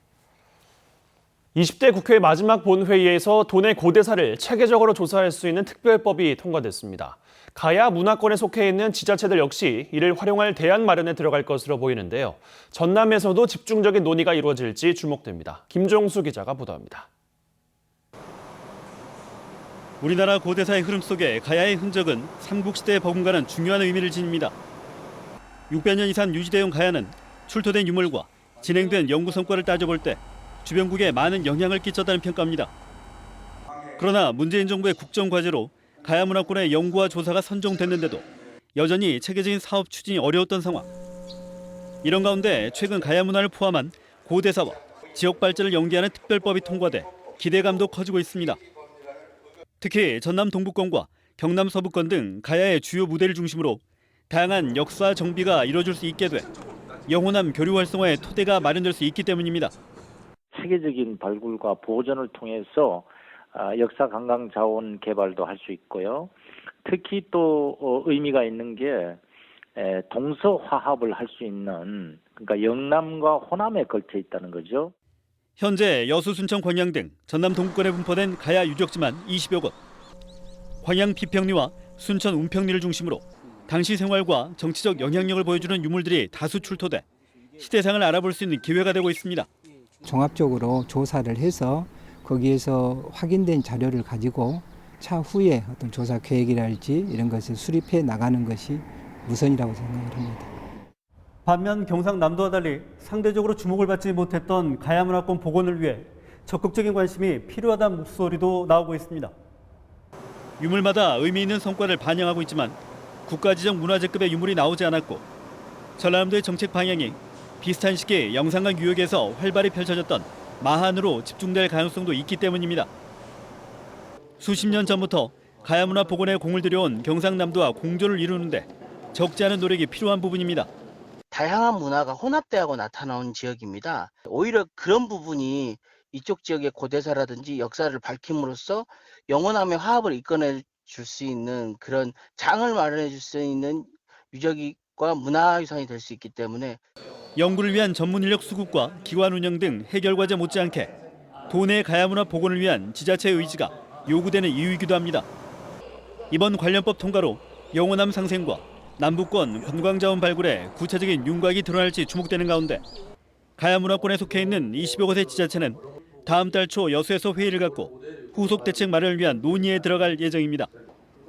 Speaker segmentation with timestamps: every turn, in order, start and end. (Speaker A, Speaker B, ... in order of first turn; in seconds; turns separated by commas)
Speaker A: 1.5-17.1, Speaker B: 20.0-24.5, Speaker B: 25.7-32.7, Speaker B: 34.0-40.9, Speaker B: 42.0-48.6, Speaker B: 49.8-56.5, Speaker B: 57.1-59.7, Speaker C: 60.5-66.3, Speaker C: 66.8-69.2, Speaker C: 69.8-74.9, Speaker B: 75.6-79.8, Speaker B: 80.8-87.0, Speaker B: 87.6-89.5, Speaker D: 90.0-100.5, Speaker B: 101.4-109.3, Speaker B: 110.6-115.2, Speaker B: 116.0-122.9, Speaker B: 124.4-130.7, Speaker E: 131.3-146.8, Speaker B: 147.3-150.9, Speaker B: 151.5-155.2, Speaker B: 156.3-162.8, Speaker B: 163.6-170.7